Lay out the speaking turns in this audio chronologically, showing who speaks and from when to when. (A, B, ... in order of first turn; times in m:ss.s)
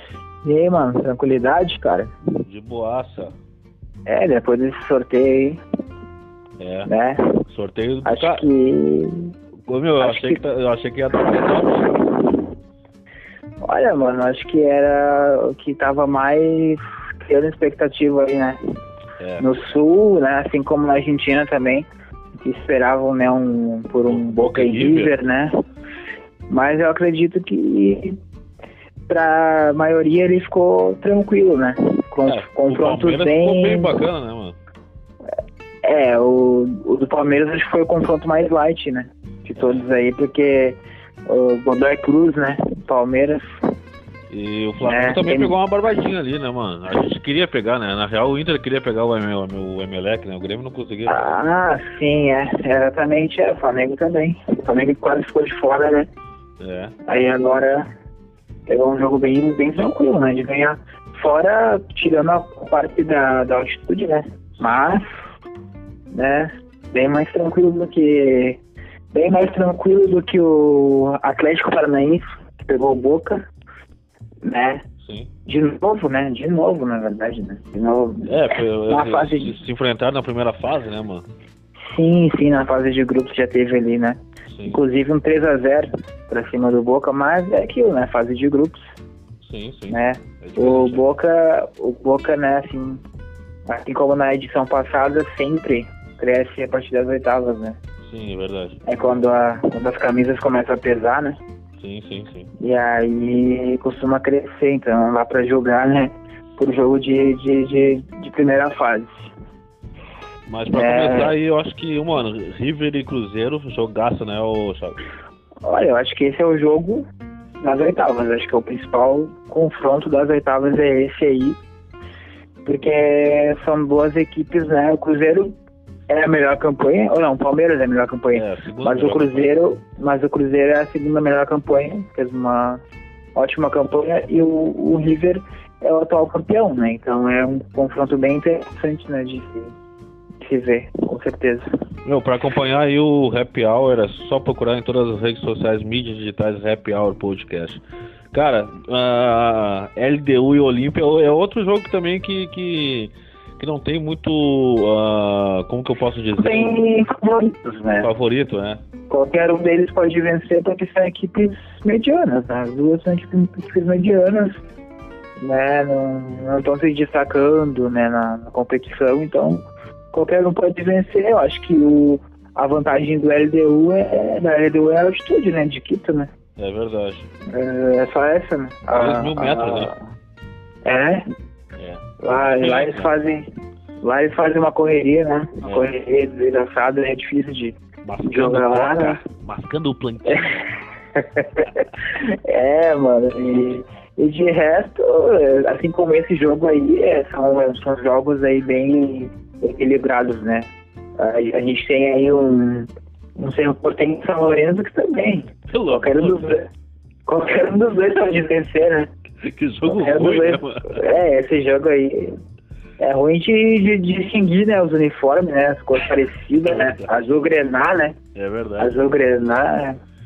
0:00.4-0:02.1 A
0:02.5-0:03.4 B
0:04.1-0:05.6 A
0:06.6-0:06.9 B
0:06.9-0:07.2 A
0:07.5-0:08.5 B
0:08.0-0:09.3 A
0:09.7-0:11.9 B
0:10.0-0:10.4 A
0:11.2-0:12.4 A
0:13.6-0:18.6 A
0:19.2-0:19.5 B
0:19.4-0:21.9 A
0:22.4-0:25.5 A
0:24.1-0:25.2 B
0:26.5-0:28.2 A
0:29.1-0:34.0 A
0:32.3-0:34.6 B
0:35.8-0:43.4 A
0:39.6-0:39.9 B
0:44.3-0:51.3 B
0:44.8-0:45.6 A
0:51.1-0:56.1 A
0:56.6-0:57.0 B
0:57.1-0:57.9 A
0:58.7-1:05.0 A
1:06.1-1:08.6 A
1:09.1-1:13.5 A
1:14.4-1:14.8 A
1:15.0-1:15.3 B
1:15.5-1:19.6 A
1:18.2-1:21.3 B
1:21.9-1:28.9 A
1:24.5-1:24.8 B
1:29.4-1:31.0 B
1:29.9-1:33.0 A
1:33.7-1:37.8 A
1:38.0-1:39.2 B
1:38.8-1:41.4 A
1:41.8-1:42.5 B
1:42.6-1:49.2 A
1:50.5-1:55.0 B
1:50.7-1:51.3 A
1:55.6-1:57.1 A
1:57.6-2:01.6 A
2:02.6-2:05.5 A
2:06.1-2:12.8 A
2:08.3-2:09.6 B
2:13.4-2:19.7 A
2:20.4-2:21.6 A
2:22.0-2:36.8 B
2:36.4-2:38.1 A
2:38.0-2:38.8 B
2:39.1-2:44.6 A
2:45.4-2:56.3 A
2:56.6-2:57.3 B
2:57.5-3:00.0 A
2:58.9-2:59.9 B
3:00.8-3:01.2 A
3:01.8-3:03.2 B
3:02.2-3:03.4 A
3:04.0-3:09.2 A
3:05.6-3:05.9 B
3:08.0-3:10.7 B
3:11.2-3:26.7 A
3:25.7-3:26.6 B
3:27.3-3:29.1 A
3:29.4-3:31.0 B
3:29.8-3:32.4 A
3:33.0-3:38.2 A
3:36.6-3:37.1 B
3:38.4-3:39.0 B
3:38.8-3:40.0 A